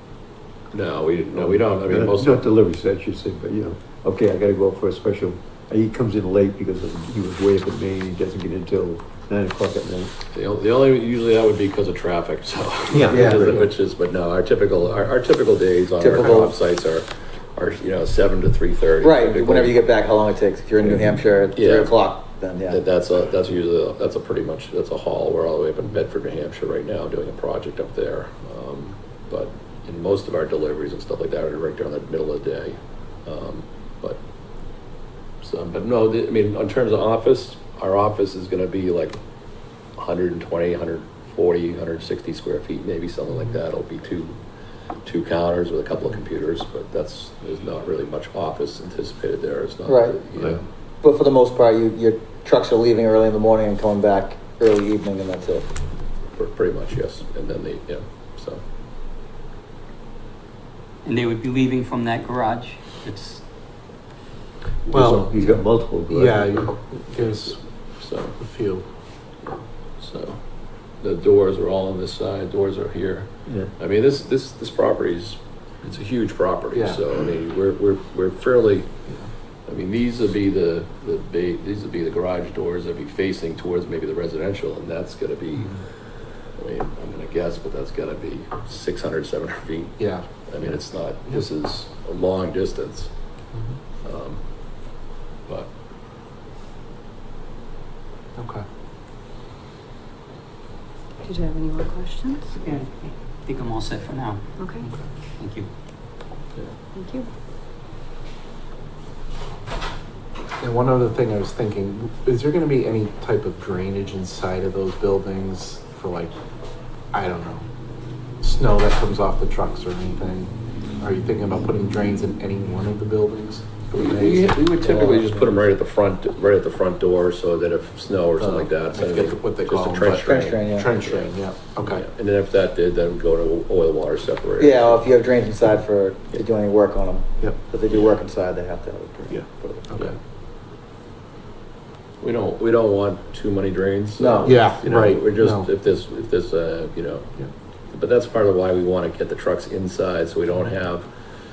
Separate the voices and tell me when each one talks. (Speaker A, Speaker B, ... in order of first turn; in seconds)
Speaker A: 0.7-2.5, 10.3-19.8, 21.5-22.1, 22.7-34.2, 35.4-39.2, 40.0-44.4, 45.0-50.6, 56.4-58.6, 67.2-68.4, 69.5-70.4, 71.0-78.9, 79.7-85.8, 86.5-93.1, 94.0-94.4, 123.9-135.1, 137.9-138.2, 139.6-140.2, 142.2-147.3, 147.9-151.1
Speaker B: 1.3-10.1, 12.9-13.6, 64.9-66.7, 73.5-73.7
Speaker C: 13.0-13.6, 64.9-65.3, 66.1-67.6, 68.4-68.9, 76.7-77.0, 90.0-90.3, 98.4-98.6, 110.6-116.3, 117.1-117.7, 118.4-125.2, 128.4-132.1, 139.3-140.2, 144.4-145.7
Speaker D: 13.1-13.4, 16.0-16.6, 19.0-22.8, 49.9-50.2, 51.0-55.7, 130.2-130.9, 134.6-139.4, 144.2-144.6
Speaker E: 61.0-63.4, 102.6-104.4, 105.4-105.7
Speaker F: 101.2-102.5, 104.6-104.9, 107.0-107.3